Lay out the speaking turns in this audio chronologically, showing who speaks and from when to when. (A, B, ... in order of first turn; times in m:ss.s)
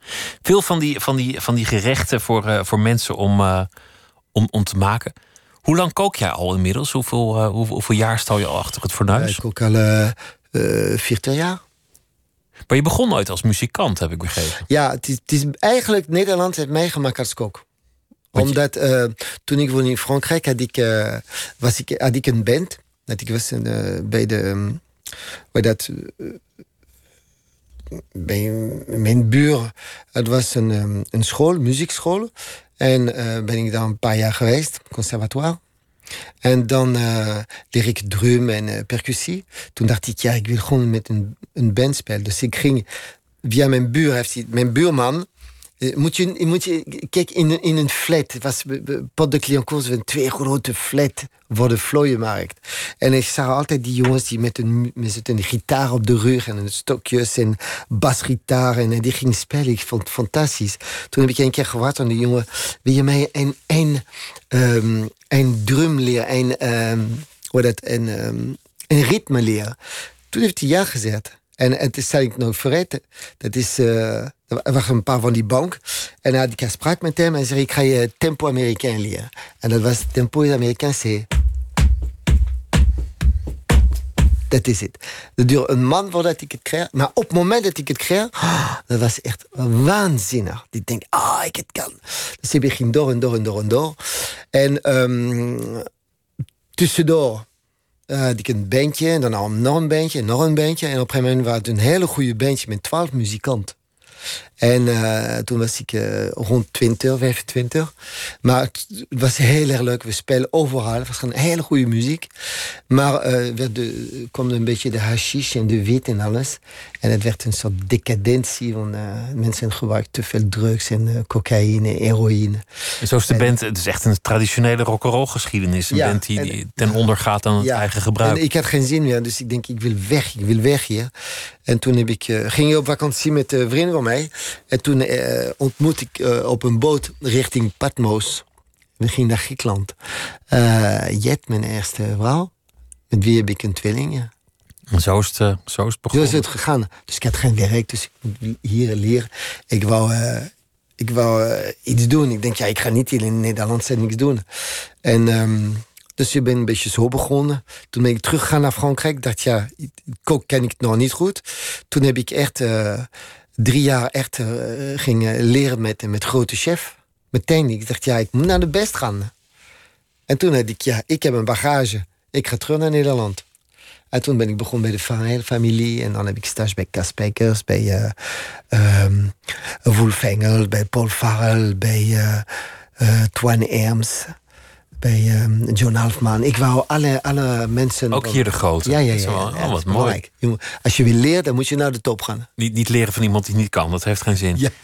0:00.4-0:03.7 A
0:04.3-0:09.4 A
0:09.1-0:11.6 B
0:12.7-0:14.6 A
0:14.7-0:17.6 B
0:18.3-0:24.8 B
0:25.5-0:26.4 B
0:28.1-0:35.6 B
0:36.4-0:42.9 B
0:43.4-0:45.3 B
0:45.8-1:09.8 B
1:10.3-1:21.3 B
1:24.5-1:35.8 B
1:36.8-1:37.4 B
1:38.1-1:43.8 B
1:44.6-1:47.9 B
1:48.4-1:52.3 B
1:52.9-2:02.6 B
2:03.0-2:08.4 A
2:03.3-2:03.5 B
2:05.9-2:07.0 B
2:07.6-2:11.1 B
2:11.7-2:18.4 B
2:19.0-2:19.9 B
2:20.5-2:22.5 B
2:23.1-2:24.3 B
2:24.9-2:26.4 A
2:26.1-2:34.4 B
2:35.0-2:49.3 B
2:50.3-2:53.4 B
2:54.1-3:04.3 B
3:05.0-3:12.5 B
3:08.1-3:10.2 A
3:12.6-3:14.6 A